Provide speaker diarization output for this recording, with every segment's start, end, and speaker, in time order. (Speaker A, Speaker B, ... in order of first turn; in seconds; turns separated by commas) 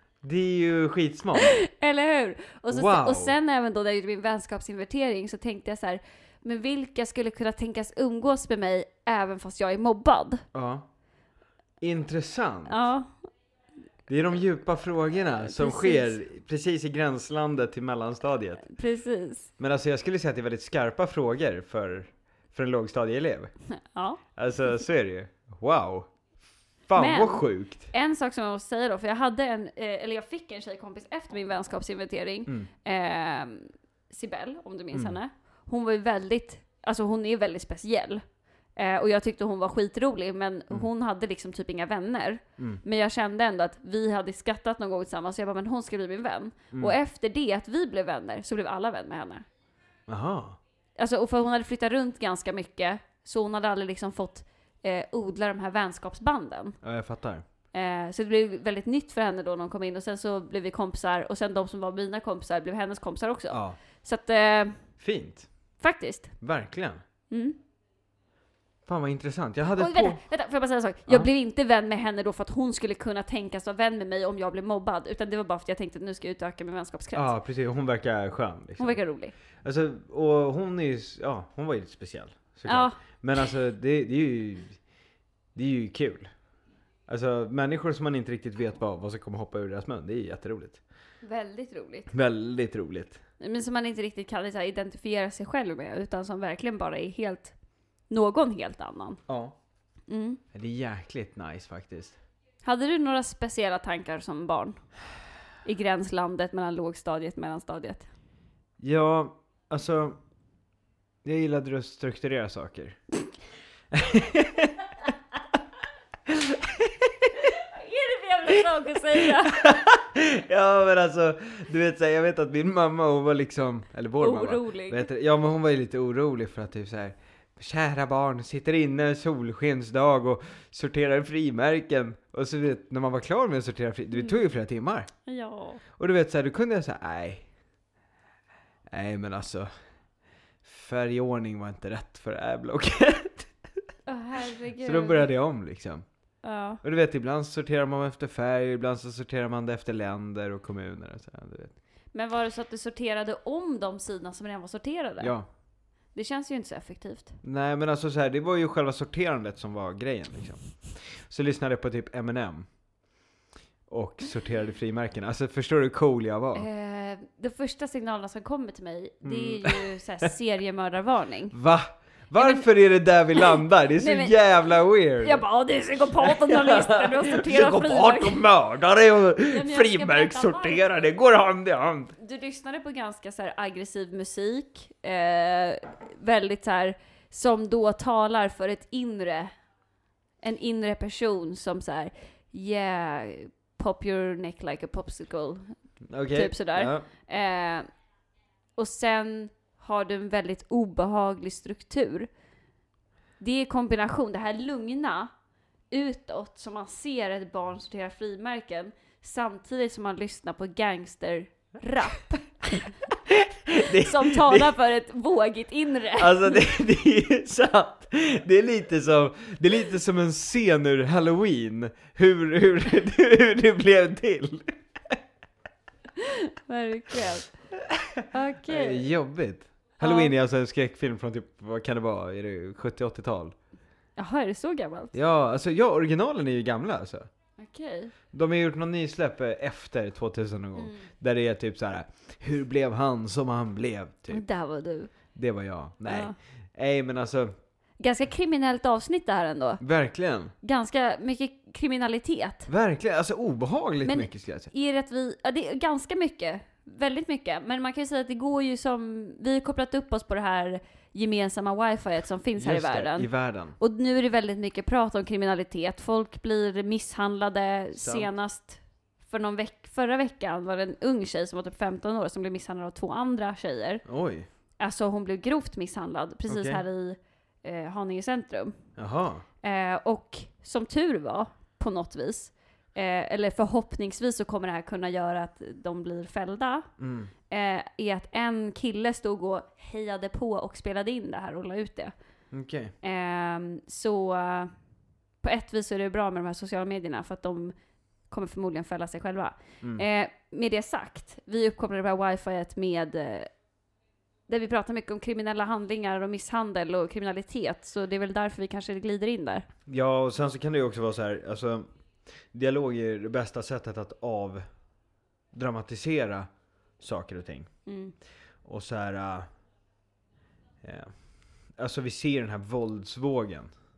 Speaker A: 0.2-1.6, Speaker B: 1.5-10.4, Speaker A: 2.7-3.3, Speaker A: 10.5-10.9, Speaker A: 11.8-12.8, Speaker B: 12.7-13.1, Speaker A: 14.1-18.7, Speaker B: 15.4-16.2, Speaker B: 18.7-19.5, Speaker A: 19.6-23.5, Speaker B: 23.8-24.2, Speaker A: 24.4-26.1, Speaker A: 26.9-27.9, Speaker B: 26.9-38.2, Speaker B: 38.7-49.4, Speaker A: 50.1-50.6, Speaker B: 51.0-56.8, Speaker A: 56.8-57.4, Speaker B: 57.7-64.9, Speaker A: 63.5-63.8, Speaker A: 65.0-65.5, Speaker B: 65.8-66.3, Speaker A: 66.4-67.0, Speaker B: 67.3-67.6, Speaker A: 68.8-70.2, Speaker B: 69.8-77.3, Speaker A: 77.1-79.0, Speaker B: 78.8-79.3, Speaker A: 79.6-84.9, Speaker B: 82.7-83.0, Speaker A: 85.5-86.3, Speaker A: 87.1-90.8, Speaker B: 91.2-92.1, Speaker A: 92.1-93.2, Speaker B: 93.4-97.5, Speaker B: 98.1-99.2, Speaker A: 99.3-99.5, Speaker B: 100.1-100.4, Speaker A: 100.5-102.2, Speaker B: 102.6-104.9, Speaker B: 105.6-108.1, Speaker A: 108.8-110.2, Speaker A: 111.2-113.0, Speaker A: 113.9-114.9, Speaker A: 116.3-117.3, Speaker B: 117.5-119.6, Speaker A: 119.5-135.1, Speaker B: 124.2-125.1, Speaker B: 135.2-135.8, Speaker A: 136.0-137.4, Speaker A: 138.9-139.7, Speaker A: 140.6-143.6, Speaker B: 144.1-145.3, Speaker A: 144.8-151.7, Speaker B: 146.4-146.8, Speaker B: 152.1-155.4, Speaker A: 155.2-155.5, Speaker B: 156.1-157.4, Speaker A: 157.4-162.7, Speaker A: 163.9-166.7, Speaker B: 166.5-171.5, Speaker A: 169.2-169.9, Speaker A: 171.5-175.4, Speaker B: 172.4-172.7, Speaker B: 173.3-174.4, Speaker B: 175.2-178.4, Speaker A: 176.2-182.1, Speaker B: 179.5-180.8, Speaker B: 182.2-189.5, Speaker B: 190.4-197.9, Speaker A: 196.1-197.1, Speaker B: 198.8-202.3, Speaker B: 203.4-205.3, Speaker B: 205.9-213.0, Speaker A: 213.4-214.7, Speaker B: 213.8-216.6, Speaker A: 216.2-225.2, Speaker B: 226.2-227.5, Speaker A: 228.2-233.6, Speaker B: 228.3-229.1, Speaker B: 230.0-230.3, Speaker B: 234.2-235.1, Speaker A: 235.1-237.3, Speaker B: 237.6-238.1, Speaker A: 238.3-244.4, Speaker B: 240.8-241.1, Speaker B: 244.3-245.1, Speaker A: 245.3-247.5, Speaker B: 246.1-246.3, Speaker B: 248.0-249.8, Speaker A: 249.8-250.5, Speaker B: 250.6-252.7, Speaker A: 252.7-254.7, Speaker B: 254.0-274.0, Speaker A: 262.6-263.7, Speaker A: 268.0-268.3, Speaker A: 274.1-274.5, Speaker B: 274.8-278.8, Speaker A: 276.5-276.8, Speaker A: 278.9-279.4, Speaker B: 279.6-286.9, Speaker A: 287.0-287.3, Speaker B: 287.5-292.1, Speaker A: 292.5-292.9, Speaker B: 293.0-294.7, Speaker B: 295.4-297.7, Speaker B: 298.3-303.5, Speaker B: 304.5-309.7, Speaker A: 309.9-311.9, Speaker A: 312.5-314.6, Speaker A: 315.5-317.7, Speaker B: 317.9-318.1, Speaker A: 318.6-319.5, Speaker A: 320.8-323.7